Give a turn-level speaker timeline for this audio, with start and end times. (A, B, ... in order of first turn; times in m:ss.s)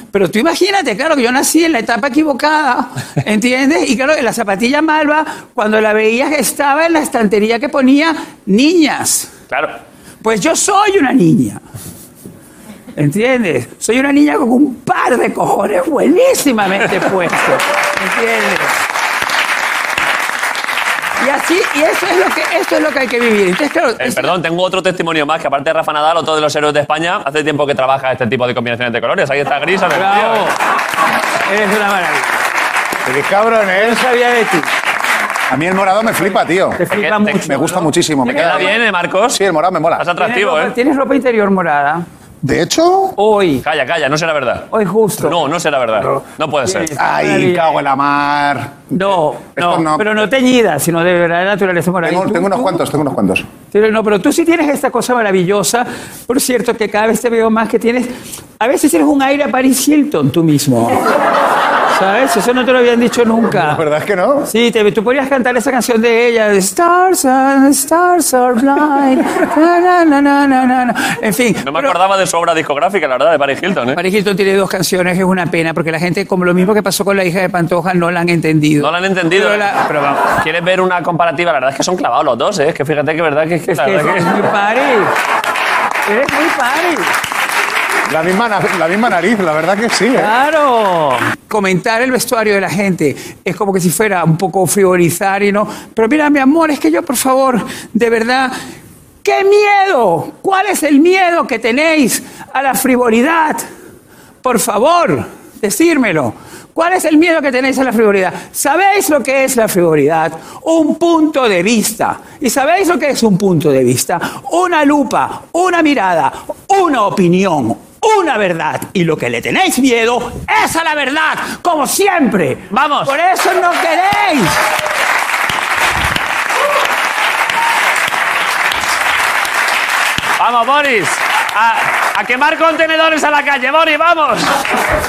0:00.1-0:09.3 A
0:09.5-0:09.8 B
0:10.2-0:11.6 A
0:13.0-0:18.8 A
0:21.2-0:24.4 A
0:24.0-0:30.5 B
0:29.9-0:30.6 A
0:31.5-0:32.4 A
0:33.0-0:34.0 C
0:33.7-0:34.7 A
0:35.5-0:40.0 C
0:36.8-0:38.8 A
0:36.9-0:39.4 B
0:40.0-0:40.7 B
0:40.1-0:42.0 A
0:42.4-0:43.2 C
0:43.2-0:43.6 A
0:43.6-0:46.9 B
0:44.7-0:45.4 A
0:46.6-0:47.8 A
0:47.0-0:50.1 C
0:48.9-0:52.8 A
0:52.0-0:53.5 C
0:53.7-1:01.0 A
1:01.9-1:03.8 A
1:03.5-1:04.5 C
1:04.5-1:12.0 A
1:11.6-1:14.0 B
1:13.9-1:19.9 A
1:18.8-1:24.4 B
1:23.7-1:25.1 A
1:26.0-1:27.1 A
1:28.1-1:30.3 C
1:30.1-1:38.5 A
1:39.2-1:43.6 A
1:44.4-2:04.6 A
2:02.7-2:03.1 B
2:10.4-2:14.6 B